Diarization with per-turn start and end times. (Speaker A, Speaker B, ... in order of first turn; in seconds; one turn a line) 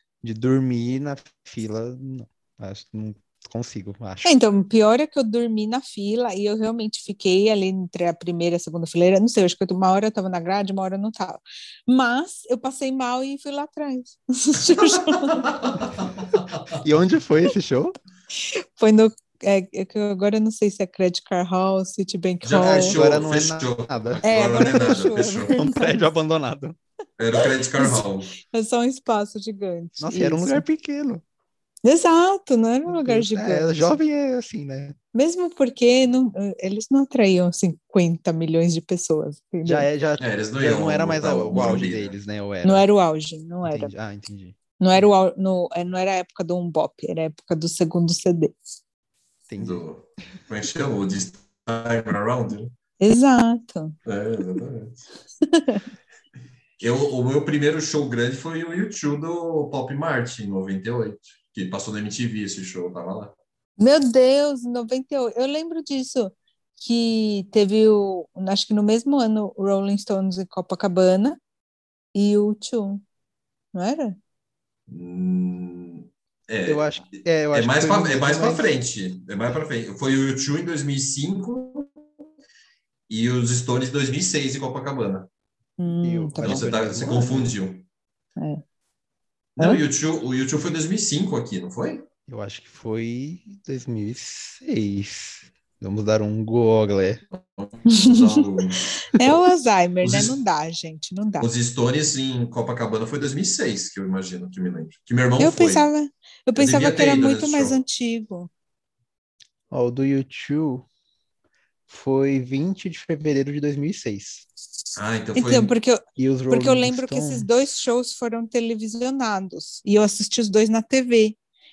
Speaker A: 0.2-4.3
Speaker B: 4.2-15.5
Speaker C: 14.8-16.8
Speaker A: 16.7-18.0
Speaker B: 18.4-23.0
Speaker C: 22.4-25.5
Speaker A: 22.6-26.8
Speaker B: 24.2-26.0
Speaker C: 27.2-28.3
Speaker B: 27.4-30.6
Speaker A: 30.0-31.2
Speaker B: 31.8-34.0
Speaker A: 32.9-35.0
Speaker B: 35.1-39.9
Speaker A: 39.6-42.9
Speaker C: 40.2-42.2
Speaker B: 42.6-43.9
Speaker A: 43.6-45.0
Speaker B: 44.8-48.6
Speaker A: 49.5-49.8
Speaker C: 49.6-52.7
Speaker B: 53.0-54.0
Speaker C: 54.1-55.0
Speaker B: 55.4-55.9
Speaker C: 56.8-63.4
Speaker B: 63.8-71.4
Speaker B: 72.1-73.0
Speaker B: 73.7-74.2
Speaker C: 74.9-81.9
Speaker A: 76.7-78.7
Speaker C: 83.1-85.3
Speaker B: 85.8-86.7
Speaker A: 86.0-87.4
Speaker C: 86.4-87.9
Speaker B: 88.4-88.6
Speaker C: 89.6-92.0
Speaker A: 92.3-97.2
Speaker C: 97.4-98.9
Speaker B: 97.9-98.5
Speaker B: 99.0-101.5
Speaker C: 101.4-105.8
Speaker B: 105.4-108.5
Speaker C: 106.6-107.8
Speaker A: 109.7-110.9
Speaker A: 111.9-114.5
Speaker C: 115.0-115.7
Speaker B: 115.4-121.4
Speaker A: 116.2-117.5